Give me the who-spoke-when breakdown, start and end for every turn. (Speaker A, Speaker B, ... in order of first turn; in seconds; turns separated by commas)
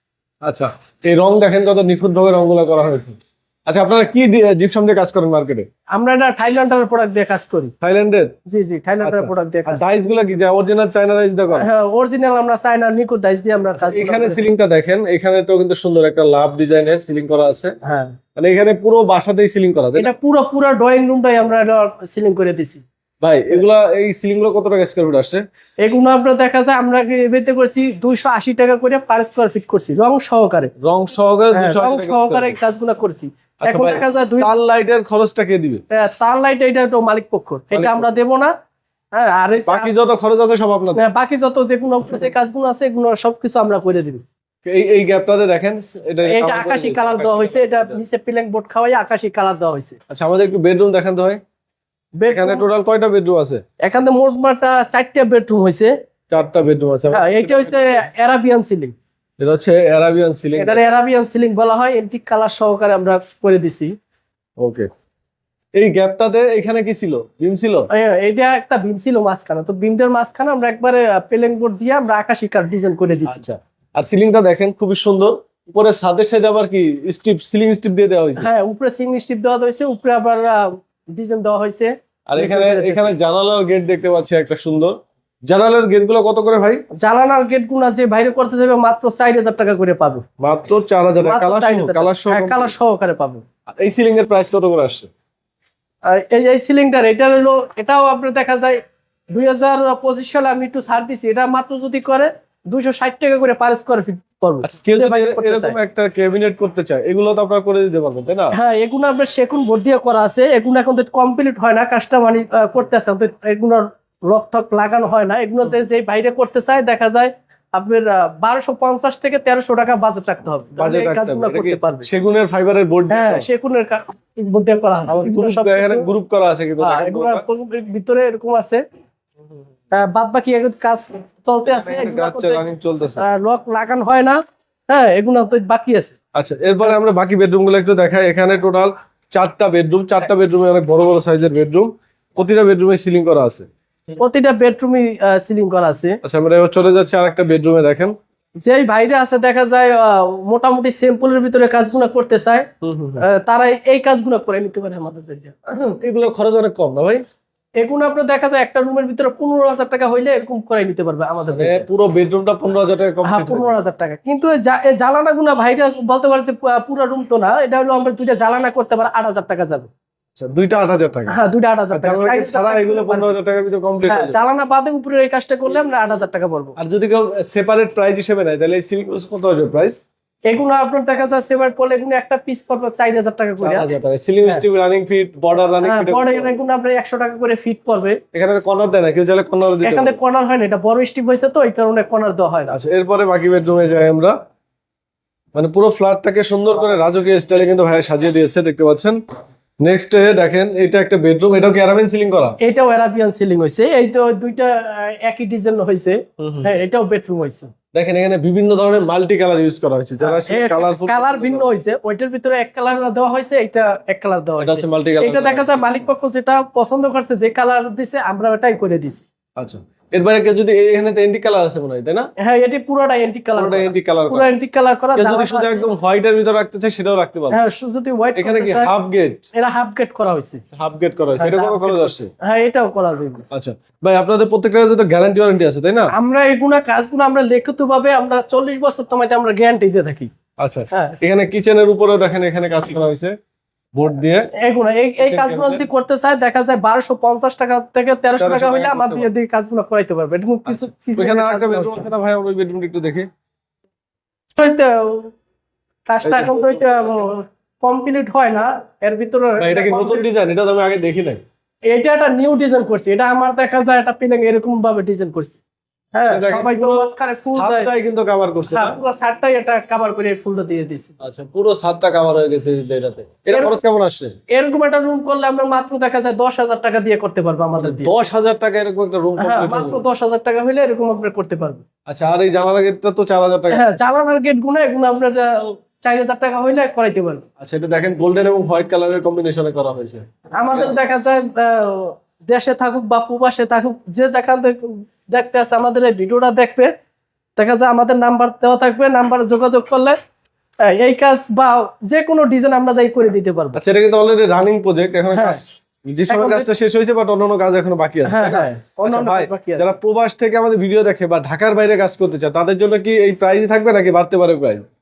Speaker A: 0.4-5.7, Speaker B: 5.9-7.7, Speaker A: 7.8-8.3, Speaker B: 8.5-9.8, Speaker A: 9.0-11.7, Speaker B: 11.6-14.4, Speaker A: 13.8-17.7, Speaker B: 17.8-18.1, Speaker A: 18.4-20.1, Speaker B: 19.9-22.8, Speaker A: 23.2-25.4, Speaker B: 25.8-30.7, Speaker A: 30.8-32.6, Speaker B: 31.5-34.5, Speaker A: 33.6-35.8, Speaker B: 35.9-38.5, Speaker A: 37.7-38.1, Speaker B: 39.1-39.9, Speaker A: 39.7-41.0, Speaker B: 41.0-44.2, Speaker A: 44.6-48.0, Speaker B: 46.2-50.0, Speaker A: 50.1-51.4, Speaker B: 52.2-52.6, Speaker A: 52.3-53.6, Speaker B: 53.8-55.9, Speaker A: 56.3-57.8, Speaker B: 57.1-58.9, Speaker A: 59.4-60.8, Speaker B: 60.5-63.9, Speaker A: 64.6-64.9, Speaker A: 65.8-67.9, Speaker B: 67.9-73.4, Speaker A: 73.3-78.5, Speaker B: 78.4-83.1, Speaker A: 82.3-84.9, Speaker A: 85.5-86.8, Speaker B: 87.0-90.2, Speaker A: 90.4-92.7, Speaker B: 91.2-93.4, Speaker A: 93.7-95.1, Speaker B: 96.0-98.8, Speaker B: 99.3-105.8, Speaker A: 104.6-108.5, Speaker B: 108.5-122.1, Speaker A: 120.8-123.5, Speaker B: 123.1-126.1, Speaker A: 125.1-127.4, Speaker B: 126.8-128.8, Speaker B: 129.9-132.6, Speaker A: 131.7-133.2, Speaker B: 133.2-134.4, Speaker B: 134.9-136.1, Speaker A: 136.3-143.7, Speaker B: 144.2-146.2, Speaker A: 146.2-148.1, Speaker B: 148.6-152.7, Speaker A: 152.8-153.2, Speaker B: 153.2-156.0, Speaker A: 156.0-157.2, Speaker B: 157.8-161.8, Speaker A: 161.5-163.7, Speaker B: 163.2-169.9, Speaker A: 170.3-171.4, Speaker B: 171.3-173.3, Speaker A: 171.9-174.3, Speaker B: 174.1-176.8, Speaker A: 176.8-180.0, Speaker B: 180.5-183.8, Speaker A: 183.6-186.5, Speaker B: 185.8-188.2, Speaker A: 188.3-190.2, Speaker B: 189.8-192.8, Speaker A: 192.7-194.3, Speaker A: 195.5-199.2, Speaker A: 199.8-202.6, Speaker B: 202.6-207.7, Speaker A: 206.4-206.7, Speaker A: 207.9-211.7, Speaker B: 210.2-219.2, Speaker A: 214.6-215.9, Speaker A: 219.6-222.3, Speaker B: 222.4-225.9, Speaker A: 223.6-224.5, Speaker A: 225.1-227.6, Speaker B: 227.5-228.9, Speaker A: 228.3-229.5, Speaker B: 229.5-230.6, Speaker A: 230.7-232.3, Speaker B: 231.4-233.4, Speaker A: 233.5-236.1, Speaker B: 236.1-240.3, Speaker A: 240.6-243.3, Speaker A: 243.9-244.5, Speaker B: 244.6-252.1, Speaker A: 245.2-245.8, Speaker A: 248.4-249.3, Speaker A: 250.7-253.3, Speaker B: 254.5-255.3, Speaker B: 256.1-260.2, Speaker A: 256.2-256.8, Speaker A: 259.6-261.4, Speaker B: 261.9-265.6, Speaker B: 266.1-267.9, Speaker A: 266.3-269.0, Speaker B: 268.7-271.1, Speaker A: 271.2-274.3, Speaker B: 274.5-278.1, Speaker A: 277.8-280.0, Speaker B: 279.4-281.8, Speaker A: 282.1-283.9, Speaker B: 283.7-287.4, Speaker A: 287.6-290.9, Speaker B: 290.6-296.9, Speaker B: 297.6-300.2, Speaker B: 300.8-303.8, Speaker A: 303.7-314.8, Speaker B: 305.3-305.6, Speaker B: 306.3-306.7, Speaker B: 308.2-309.8